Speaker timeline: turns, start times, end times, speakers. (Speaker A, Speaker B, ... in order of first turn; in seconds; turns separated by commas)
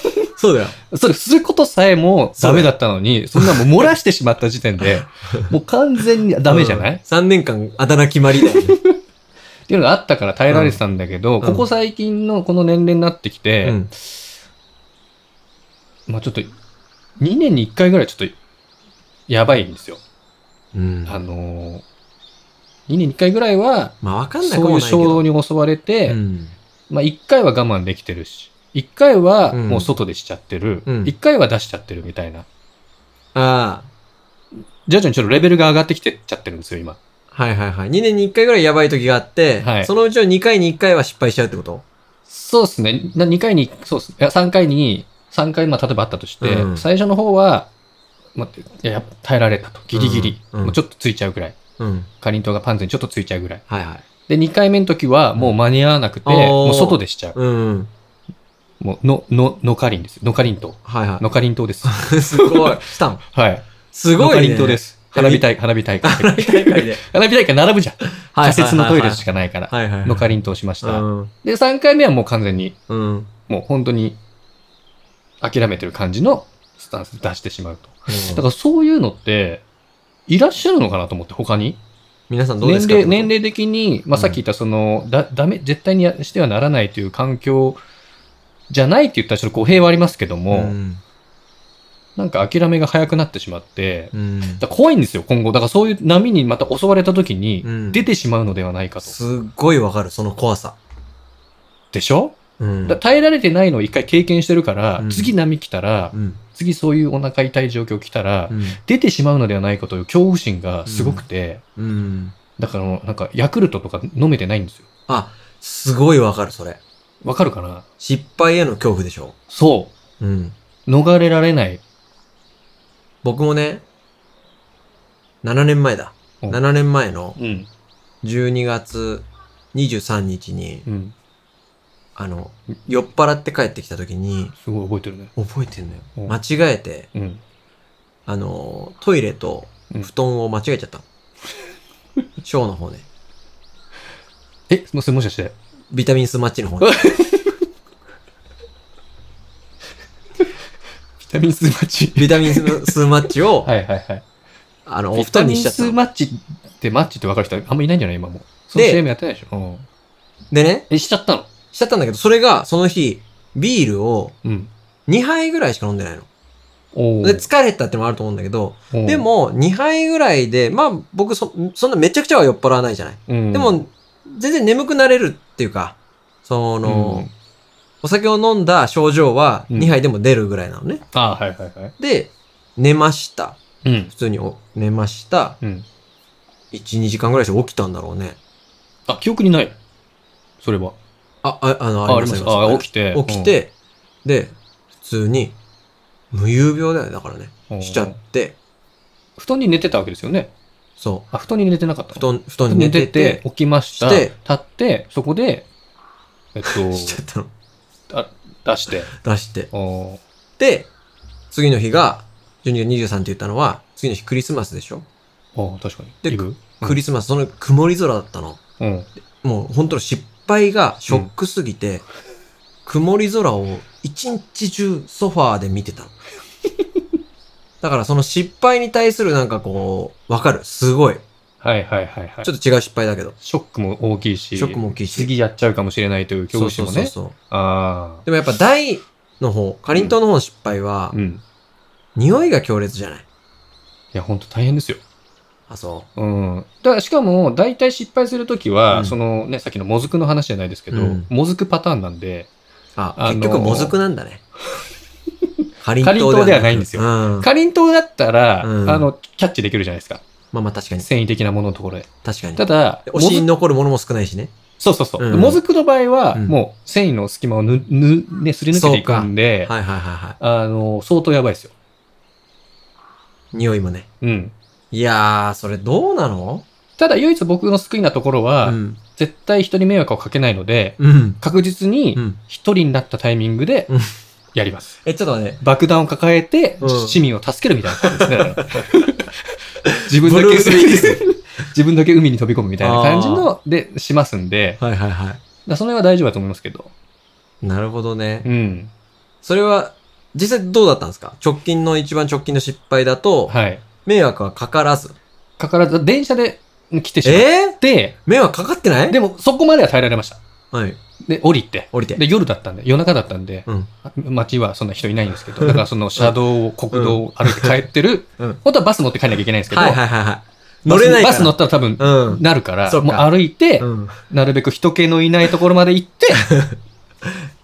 Speaker A: 0.4-0.8, Speaker B: 0.9-7.0, Speaker A: 2.4-2.7, Speaker A: 3.4-3.7, Speaker A: 4.8-5.5, Speaker A: 6.5-8.8, Speaker B: 8.4-9.0, Speaker B: 9.7-13.8, Speaker A: 10.5-10.8, Speaker A: 11.4-11.7, Speaker A: 13.6-13.9, Speaker B: 16.1-16.5, Speaker B: 17.2-18.4, Speaker B: 19.3-20.0, Speaker A: 20.7-21.2, Speaker B: 21.1-21.8, Speaker B: 22.9-26.2, Speaker A: 24.0-25.3, Speaker A: 26.1-26.6, Speaker B: 26.9-32.5, Speaker A: 29.5-29.9, Speaker A: 30.9-31.1, Speaker A: 33.3-33.9, Speaker B: 34.9-37.0, Speaker A: 37.3-41.8, Speaker B: 39.6-39.9, Speaker B: 42.3-47.7, Speaker A: 46.4-46.9, Speaker B: 48.4-51.6, Speaker A: 49.9-50.8, Speaker A: 51.8-52.1, Speaker B: 52.2-53.6, Speaker A: 53.7-54.0, Speaker B: 54.3-57.4, Speaker A: 56.2-57.9, Speaker B: 58.8-72.8, Speaker A: 60.9-61.2, Speaker A: 61.8-63.2, Speaker A: 63.9-65.5, Speaker A: 66.0-67.0, Speaker A: 68.3-71.3, Speaker A: 72.9-73.3, Speaker B: 73.5-74.2, Speaker B: 75.4-79.6, Speaker A: 78.1-78.5, Speaker B: 80.3-81.8, Speaker A: 82.3-83.3, Speaker B: 82.6-87.8, Speaker B: 88.7-90.8, Speaker A: 90.5-91.0, Speaker B: 92.2-99.2, Speaker A: 94.1-94.6, Speaker A: 97.6-98.0, Speaker A: 99.0-100.8, Speaker B: 101.9-102.4, Speaker A: 102.6-103.0, Speaker B: 102.9-111.6, Speaker A: 105.0-105.3, Speaker A: 106.1-106.4, Speaker A: 108.5-108.8, Speaker A: 110.9-111.2, Speaker A: 111.8-112.3, Speaker B: 112.6-114.9, Speaker A: 115.1-116.8, Speaker B: 117.2-117.8, Speaker A: 118.0-119.3, Speaker B: 119.5-119.9, Speaker A: 120.2-120.6, Speaker B: 120.9-121.8, Speaker A: 123.2-123.8, Speaker A: 125.4-127.4, Speaker B: 127.4-127.7, Speaker A: 128.2-130.9, Speaker B: 130.9-131.1, Speaker A: 132.2-134.5, Speaker B: 134.6-135.3, Speaker A: 135.4-137.1, Speaker B: 137.1-137.4, Speaker A: 138.3-141.0, Speaker A: 142.4-143.1, Speaker B: 144.7-145.6, Speaker A: 145.9-146.9, Speaker B: 146.8-147.6, Speaker B: 151.2-152.9, Speaker A: 152.2-153.7, Speaker B: 153.6-154.2, Speaker A: 154.9-156.0, Speaker B: 155.1-159.9, Speaker A: 158.8-159.0, Speaker A: 160.5-160.9, Speaker B: 160.9-161.5, Speaker A: 161.7-164.4, Speaker B: 164.4-164.7, Speaker A: 165.1-166.3, Speaker B: 166.9-167.5, Speaker A: 167.2-177.3, Speaker B: 168.9-169.3, Speaker B: 173.3-173.8, Speaker B: 176.8-177.3, Speaker A: 178.0-181.1, Speaker B: 179.7-180.0, Speaker B: 181.1-181.9, Speaker A: 182.0-185.6, Speaker B: 183.8-184.1, Speaker A: 186.7-188.4, Speaker B: 189.1-189.8, Speaker B: 190.6-191.0, Speaker A: 191.4-193.7, Speaker B: 192.1-193.6, Speaker A: 194.2-195.6, Speaker A: 196.3-198.6, Speaker B: 197.7-198.2, Speaker B: 199.4-200.5, Speaker A: 201.0-201.3, Speaker B: 201.3-205.7, Speaker A: 202.1-203.4, Speaker A: 204.0-204.3, Speaker B: 206.5-207.2, Speaker A: 206.7-207.5, Speaker B: 208.1-209.1, Speaker A: 209.1-209.7, Speaker B: 209.7-210.2, Speaker A: 210.6-210.9, Speaker A: 211.5-215.1, Speaker B: 215.6-217.0, Speaker A: 216.2-218.6, Speaker B: 218.8-219.1, Speaker A: 219.4-222.1, Speaker A: 222.9-226.1, Speaker A: 227.8-231.2, Speaker B: 231.6-232.5, Speaker A: 232.4-233.3, Speaker B: 233.4-238.3, Speaker A: 234.6-235.3, Speaker A: 236.5-237.3, Speaker A: 238.3-241.2, Speaker B: 241.1-241.4, Speaker A: 242.2-243.2, Speaker B: 244.1-245.0, Speaker A: 245.7-246.1, Speaker B: 246.2-252.5, Speaker A: 248.9-249.2, Speaker A: 250.9-251.3, Speaker A: 253.0-254.4, Speaker B: 253.2-253.9, Speaker A: 255.8-257.5, Speaker B: 256.0-260.2, Speaker A: 258.6-259.1, Speaker A: 260.5-261.1, Speaker B: 261.0-263.5, Speaker A: 262.2-264.5, Speaker B: 264.8-269.7, Speaker A: 265.2-265.6, Speaker A: 268.7-270.4, Speaker B: 270.4-271.7, Speaker A: 273.5-274.1, Speaker B: 274.2-274.5, Speaker A: 274.9-276.6, Speaker B: 277.0-283.9, Speaker A: 278.6-279.0, Speaker A: 281.0-281.4, Speaker B: 284.5-285.0, Speaker A: 285.0-285.6, Speaker B: 285.6-289.3, Speaker A: 286.8-287.2, Speaker A: 288.0-288.7, Speaker A: 289.9-291.2, Speaker B: 290.0-294.8, Speaker A: 292.8-293.5, Speaker A: 294.8-295.4, Speaker B: 295.7-296.9, Speaker A: 297.6-298.5, Speaker B: 298.4-298.9, Speaker A: 299.4-303.5, Speaker B: 303.5-303.8, Speaker A: 304.1-305.2, Speaker B: 305.6-308.2, Speaker A: 307.2-309.2, Speaker B: 309.1-310.4, Speaker A: 310.7-311.0, Speaker B: 311.3-320.0, Speaker A: 311.9-312.2, Speaker A: 315.6-316.4, Speaker A: 316.9-317.8, Speaker A: 319.7-323.3, Speaker B: 320.9-326.5, Speaker A: 323.8-324.2, Speaker A: 326.4-327.3